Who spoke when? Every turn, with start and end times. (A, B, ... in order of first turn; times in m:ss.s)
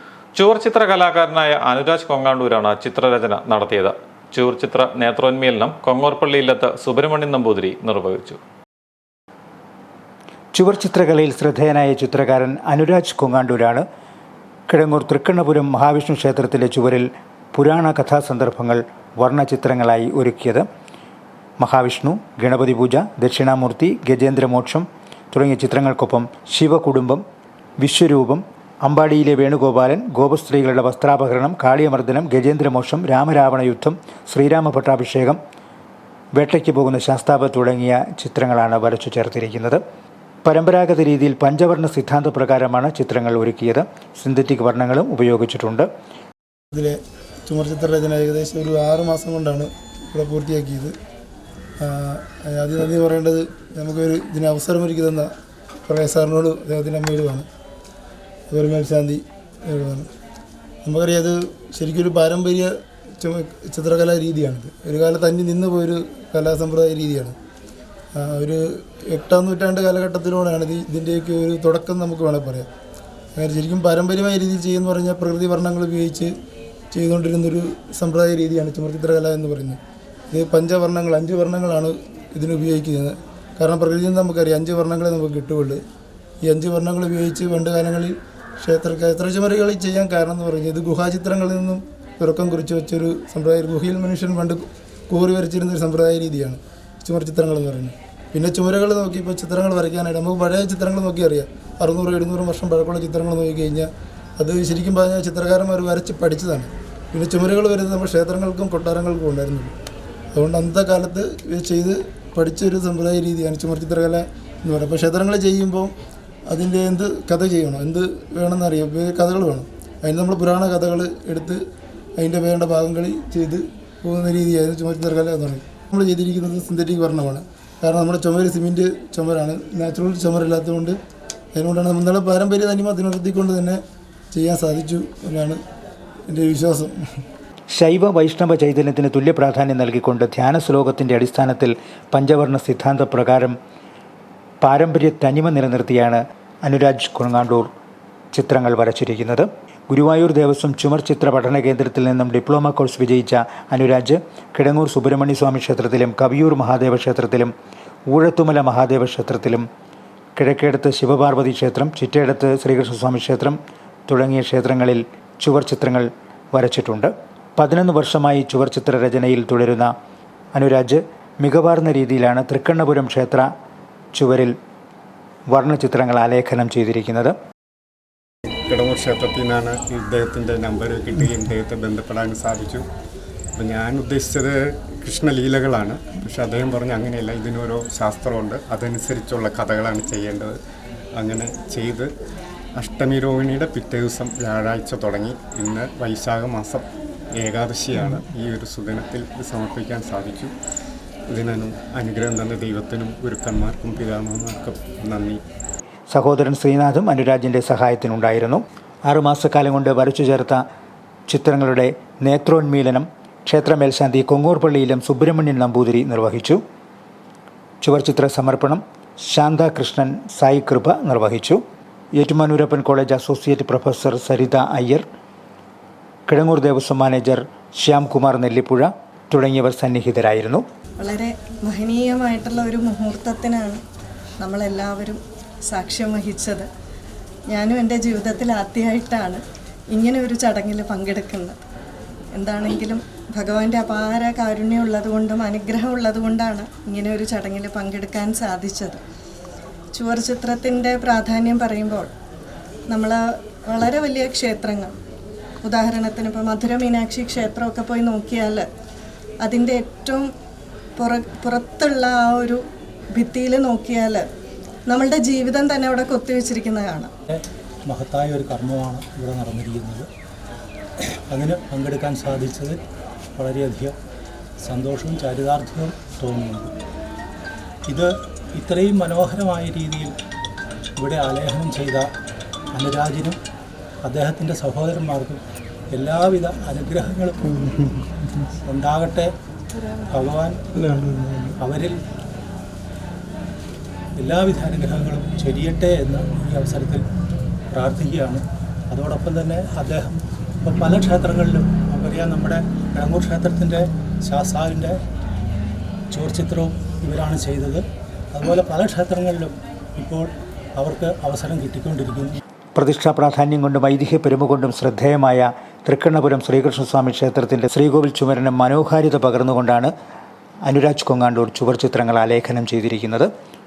0:00.4-0:08.4 A
0:10.5-0:13.8 B
0:14.7-0:20.7 B
0:21.6-0:27.2 B
0:27.8-0:35.4 B
0:36.4-0:39.8 B
0:40.4-0:45.9 B
0:46.7-0:51.0 C
0:51.8-0:55.3 C
0:55.9-0:57.5 C
0:58.5-1:00.1 C
1:00.8-1:02.7 C
1:03.2-1:07.4 C
1:08.1-1:12.7 C
1:13.4-1:16.3 C
1:16.9-1:19.8 C
1:20.3-1:25.8 C
1:26.4-1:49.7 C
1:50.3-1:55.9 C
1:56.5-2:01.6 C
2:02.2-2:11.0 C
2:11.5-2:13.8 C
2:14.3-2:15.6 C
2:16.3-2:17.0 C
2:17.7-2:23.6 B
2:24.6-2:27.7 B
2:28.3-2:37.5 B
2:38.1-2:39.7 B
2:40.4-2:43.6 B
2:44.1-2:49.9 B
2:50.5-2:53.5 B
2:54.1-2:54.5 B
2:55.5-2:57.4 B
2:58.7-3:02.9 D
3:03.6-3:10.6 D
3:11.2-3:12.1 D
3:12.8-3:16.8 D
3:17.4-3:20.6 D
3:21.3-3:25.4 D
3:26.1-3:30.6 B
3:31.3-3:36.6 B
3:37.8-3:41.6 B
3:42.2-3:45.0 B
3:46.3-3:50.6 B
3:51.0-3:53.8 E
3:54.4-3:56.7 E
3:57.5-4:01.6 E
4:02.4-4:09.0 E
4:09.9-4:12.1 E
4:12.9-4:14.9 E
4:15.6-4:18.7 E
4:19.4-4:20.3 E
4:21.0-4:22.6 E
4:23.1-4:24.3 E
4:24.9-4:27.1 E
4:27.3-4:30.1 F
4:31.0-4:32.8 F
4:33.4-4:34.0 F
4:34.6-4:36.7 F
4:37.9-4:40.2 F
4:41.0-4:42.1 F
4:42.8-4:43.4 F
4:44.0-4:45.4 F
4:45.9-4:47.6 F
4:47.6-4:48.0 C
4:48.6-4:49.3 F
4:50.0-4:50.6 F
4:50.8-4:51.5 C
4:51.6-4:52.0 F
4:54.2-4:57.0 F
4:57.7-5:05.0 F
5:06.1-5:12.4 F
5:12.8-5:19.9 B
5:20.6-5:23.3 B